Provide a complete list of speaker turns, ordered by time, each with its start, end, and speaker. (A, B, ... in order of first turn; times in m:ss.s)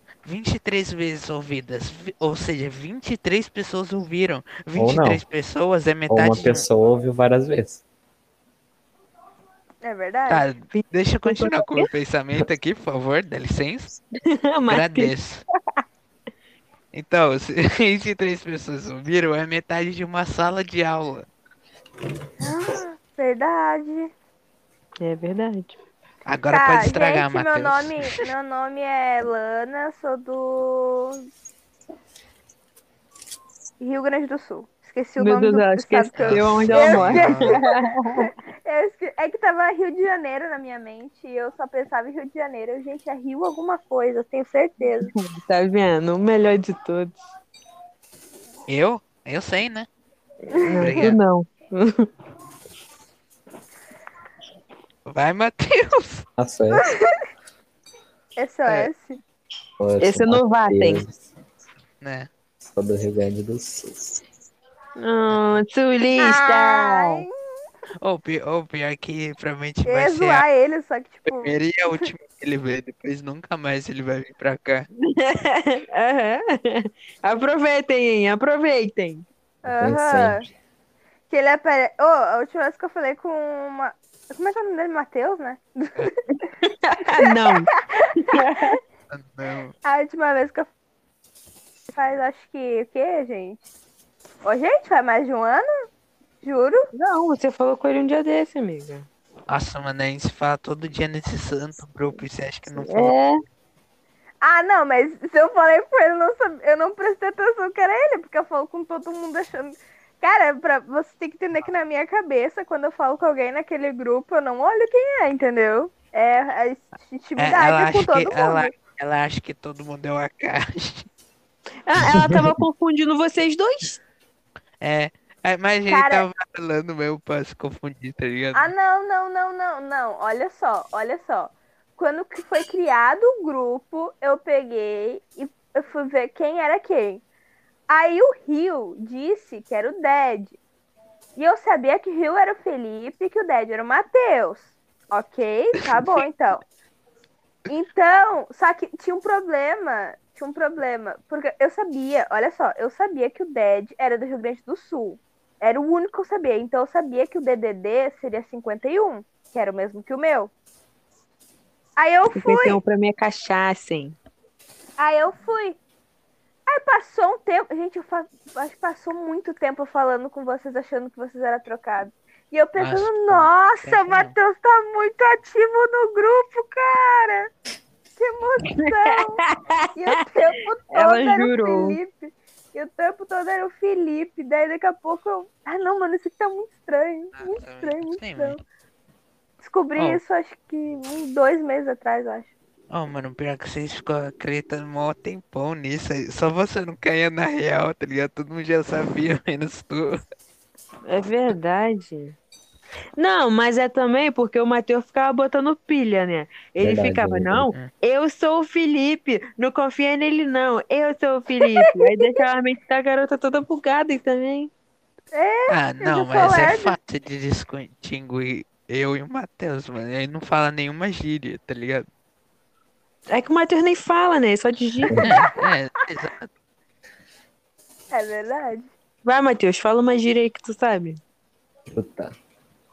0:00.2-0:06.6 A
0:04.7-0:05.2 B
0:06.1-0:07.8 B
0:09.8-0:10.4 C
0:10.3-0:14.0 A
0:10.7-0:11.9 D
0:14.2-0:15.1 D
0:14.7-0:15.4 A
0:16.9-0:21.2 A
0:22.4-0:24.1 C
0:25.0-0:25.8 D
0:26.2-0:28.2 A
0:26.5-0:31.3 C
0:33.8-0:45.1 C
0:35.2-0:38.3 D
0:36.2-0:37.6 A
0:37.1-0:37.3 B
0:45.1-0:47.2 D
0:48.7-0:49.9 A
0:50.5-0:52.1 D
0:50.6-0:50.9 C
0:50.7-0:51.2 A
0:55.0-0:56.2 A
0:56.4-0:56.8 B
0:56.7-0:57.1 C
0:58.4-0:59.2 C
0:59.8-1:01.2 B
1:00.0-1:01.0 D
1:02.0-1:02.3 A
1:02.6-1:04.2 B
1:05.0-1:07.2 D
1:05.3-1:05.6 A
1:06.2-1:07.3 C
1:08.0-1:10.4 A
1:09.8-1:12.0 C
1:11.3-1:14.9 A
1:15.0-1:19.2 D
1:19.6-1:20.4 C
1:19.6-1:20.5 B
1:21.3-1:26.1 C
1:26.3-1:28.8 D
1:27.2-1:28.3 C
1:29.1-1:29.7 A
1:29.8-1:30.7 C
1:31.9-1:33.6 C
1:34.4-1:35.8 C
1:36.4-1:36.9 C
1:36.9-1:39.1 D
1:39.5-1:43.2 A
1:42.8-1:43.4 D
1:44.4-1:58.7 C
1:57.4-2:01.1 A
2:01.8-2:04.0 D
2:02.0-2:02.4 B
2:04.8-2:08.7 A
2:05.9-2:06.2 C
2:08.5-2:17.2 C
2:17.9-2:20.6 C
2:21.4-2:26.6 C
2:27.7-2:40.5 C
2:42.0-2:42.8 C
2:42.3-2:44.2 D
2:45.0-2:45.8 C
2:46.7-2:57.5 C
2:52.8-2:54.3 A
2:58.2-2:59.4 C
2:58.7-3:00.2 D
3:00.0-3:08.6 C
3:00.9-3:02.0 D
3:07.3-3:08.6 A
3:09.6-3:12.5 C
3:10.0-3:10.2 A
3:12.9-3:20.2 A
3:21.1-3:22.4 D
3:23.2-3:34.7 D
3:26.8-3:27.7 B
3:31.6-3:32.4 C
3:35.3-3:36.9 C
3:35.7-3:42.0 A
3:43.3-3:45.2 D
3:45.1-3:45.4 B
3:45.2-3:46.5 A
3:48.1-3:48.9 C
3:49.2-3:51.2 D
3:51.9-3:52.3 B